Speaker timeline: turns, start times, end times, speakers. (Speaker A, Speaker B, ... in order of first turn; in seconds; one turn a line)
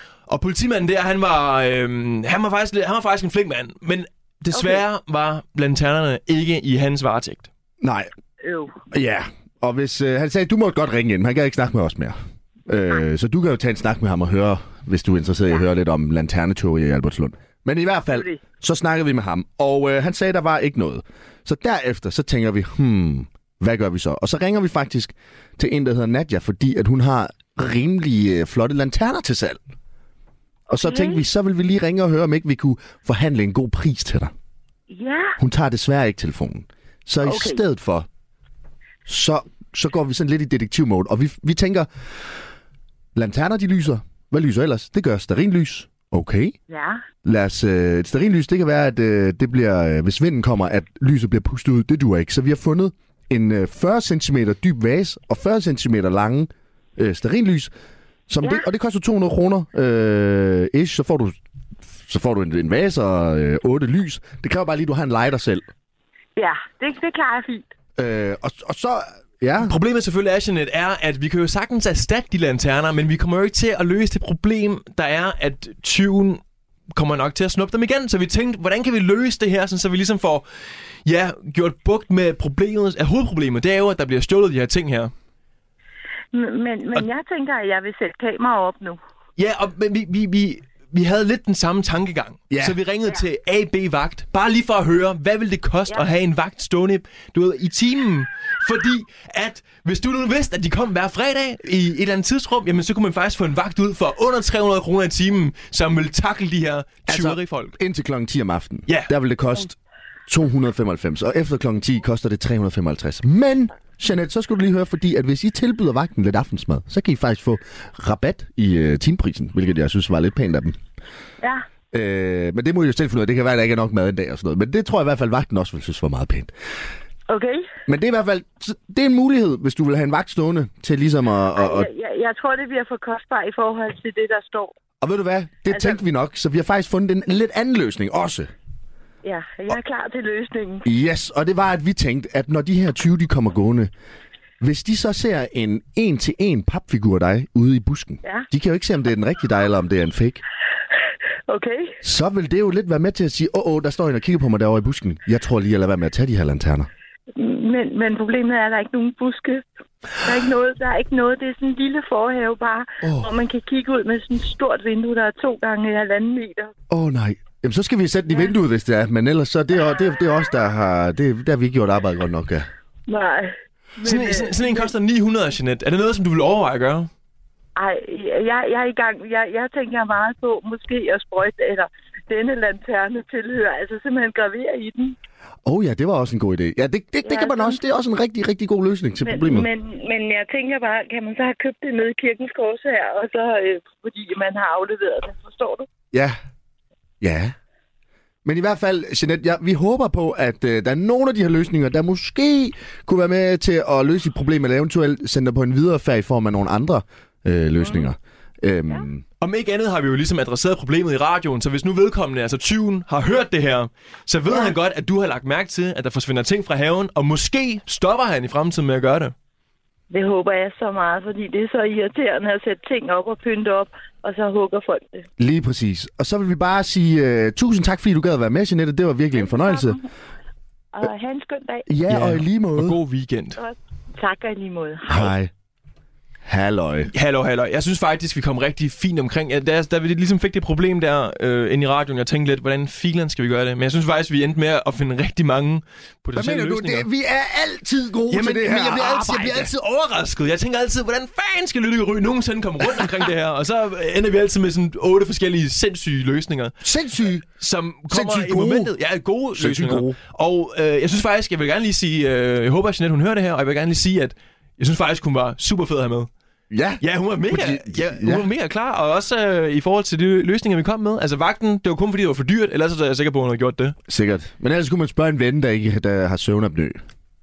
Speaker A: 0.3-7.5
Speaker B: 4.5-4.8
Speaker C: 7.8-8.1
Speaker B: 8.4-8.7
Speaker C: 8.9-12.2
Speaker C: 12.7-29.6
Speaker B: 18.1-18.4
Speaker B: 30.7-31.2
Speaker C: 30.7-34.3
Speaker B: 34.9-35.4
Speaker C: 35.4-38.1
Speaker B: 37.2-37.6
Speaker C: 39.0-41.9
Speaker C: 43.1-46.5
Speaker B: 46.7-47.0
Speaker C: 47.2-57.7
Speaker C: 58.3-61.4
Speaker C: 62.0-65.7
Speaker B: 66.4-67.7
Speaker C: 68.0-69.7
Speaker A: 69.6-76.4
Speaker A: 76.9-80.5
Speaker A: 81.0-85.1
Speaker B: 86.3-89.0
Speaker A: 89.4-107.8
Speaker C: 92.5-92.8
Speaker C: 107.0-109.8
Speaker C: 110.3-120.8
Speaker C: 121.9-126.5
Speaker B: 127.3-127.7
Speaker C: 127.9-131.9
Speaker B: 131.6-134.7
Speaker C: 135.0-138.5
Speaker B: 135.7-136.0
Speaker B: 139.2-140.8
Speaker C: 140.8-143.9
Speaker C: 144.6-150.4
Speaker B: 151.5-152.0
Speaker C: 152.0-156.9
Speaker B: 157.3-166.7
Speaker C: 163.0-163.3
Speaker C: 166.9-172.7
Speaker B: 173.1-174.9
Speaker A: 174.0-177.1
Speaker B: 177.8-185.2
Speaker C: 185.6-189.7
Speaker B: 187.2-187.8
Speaker B: 189.2-195.9
Speaker C: 196.1-196.4
Speaker C: 197.2-197.5
Speaker C: 198.4-209.2
Speaker B: 207.8-208.1
Speaker A: 209.4-219.3
Speaker B: 220.1-225.2
Speaker C: 225.4-230.0
Speaker B: 229.3-230.1
Speaker B: 230.9-231.8
Speaker C: 231.9-232.9
Speaker A: 232.1-233.6
Speaker B: 233.6-235.3
Speaker C: 235.1-235.5
Speaker C: 236.4-237.1
Speaker A: 237.1-247.1
Speaker C: 246.3-249.7
Speaker A: 248.3-256.7
Speaker C: 256.8-257.4
Speaker A: 257.6-266.3
Speaker C: 258.1-258.9
Speaker C: 259.5-260.2
Speaker C: 266.7-268.5
Speaker A: 267.0-273.9
Speaker C: 274.1-277.0